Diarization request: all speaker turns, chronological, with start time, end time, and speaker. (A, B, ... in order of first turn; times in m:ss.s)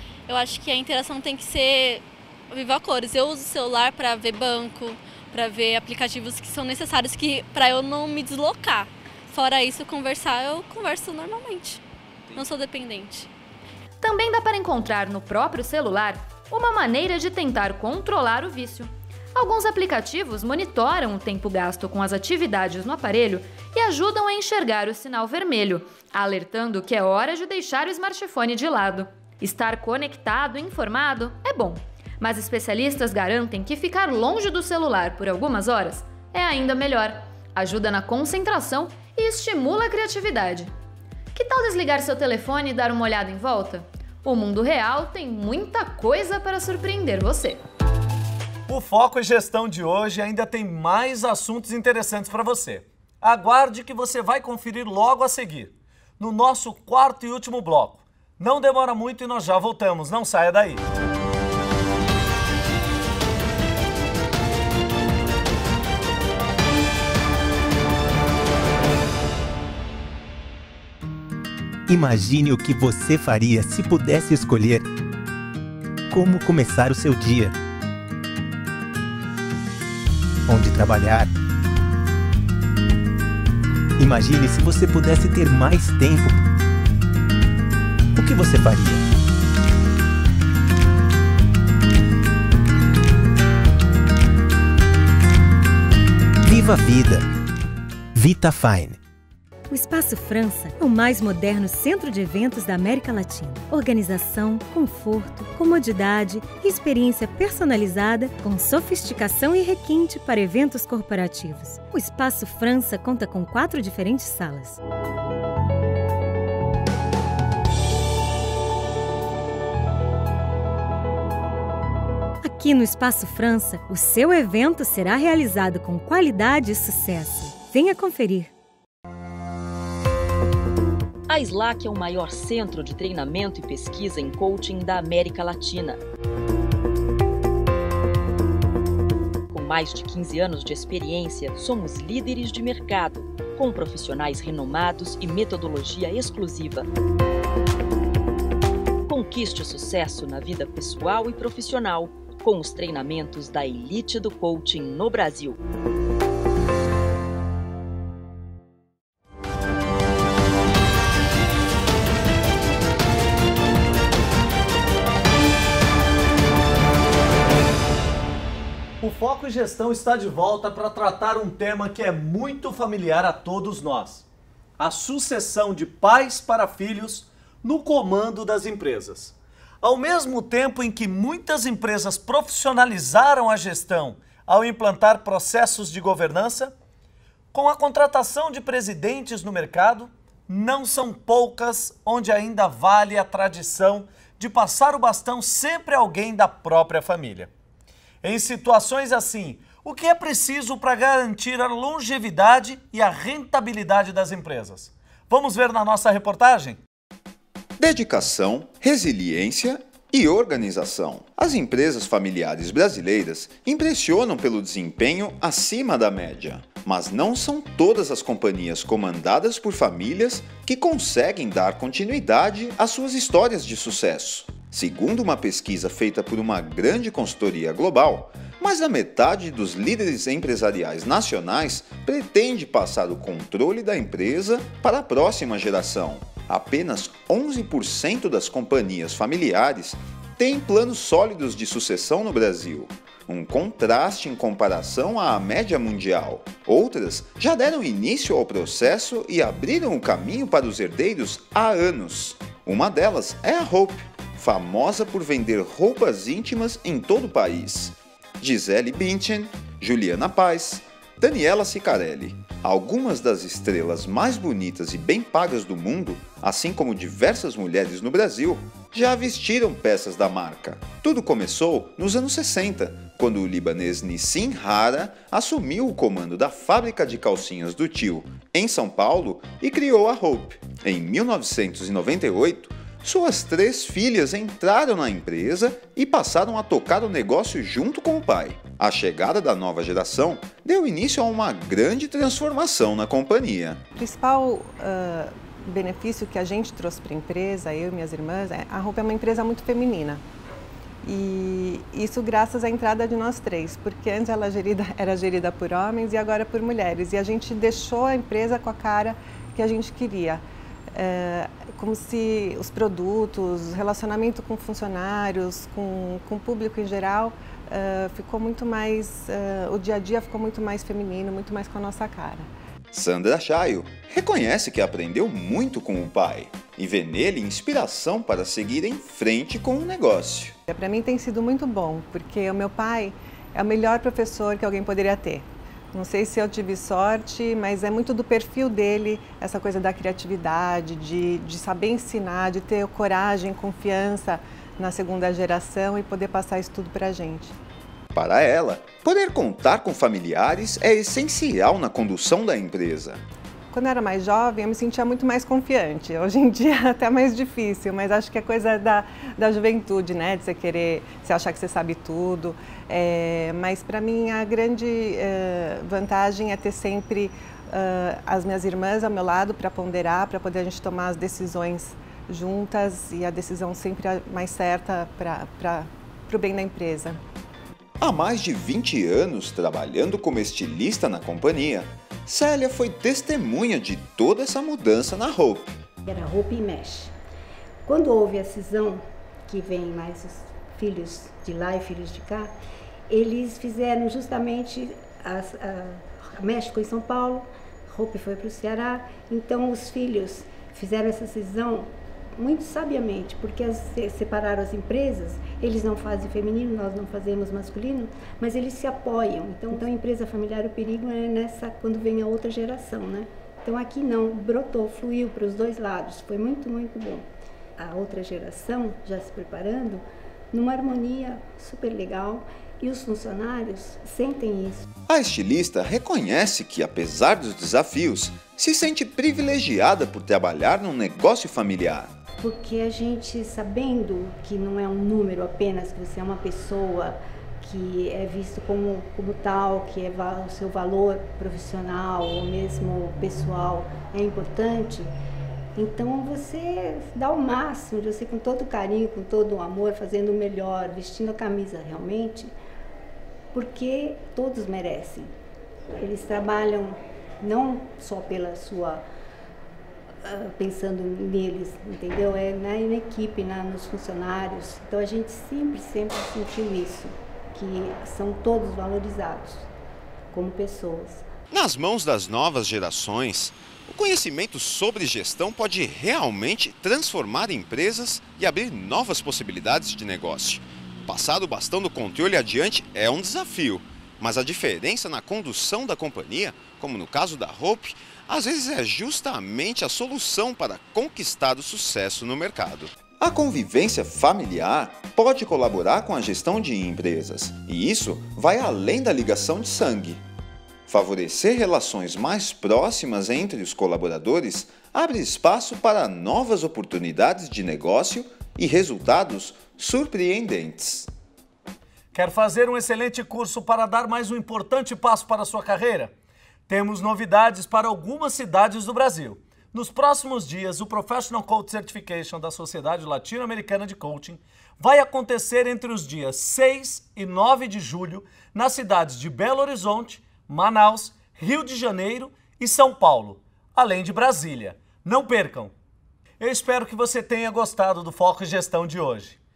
0:00.3-0:13.3 A
0:14.0-0:40.7 B
0:41.3-0:47.6 B
0:48.7-1:00.8 C
1:11.9-1:14.8 D
1:16.1-1:17.5 D
1:20.4-1:21.3 D
1:24.0-1:26.4 D
1:28.1-1:29.0 D
1:36.4-1:37.2 D
1:38.1-1:39.0 D
1:39.7-1:54.8 E
2:02.4-2:08.5 E
2:11.3-2:16.0 F
2:19.5-2:26.8 F
2:29.1-2:35.6 F
2:49.0-2:54.2 C
2:54.8-3:06.7 C
3:07.5-3:17.5 C
3:18.2-3:26.8 C
3:27.8-4:53.8 G
4:53.9-5:00.2 H
5:01.0-5:22.5 H
5:22.9-5:30.6 G
5:30.7-5:47.5 H
5:48.1-5:53.2 G
5:53.7-6:17.2 H
6:18.0-6:25.8 G
6:26.0-6:27.1 I
6:27.8-6:32.5 I
6:33.1-6:57.3 I
6:57.8-7:04.9 I
7:05.1-7:12.1 G
7:12.4-7:25.1 I
7:25.7-7:32.5 I
7:33.5-7:35.3 I
7:36.0-7:39.0 I
7:40.2-7:49.7 I
7:50.3-7:51.3 I
7:51.5-8:20.2 G
8:20.9-8:31.1 G
8:32.1-8:36.1 C
8:36.7-8:55.7 C
8:56.4-8:59.4 C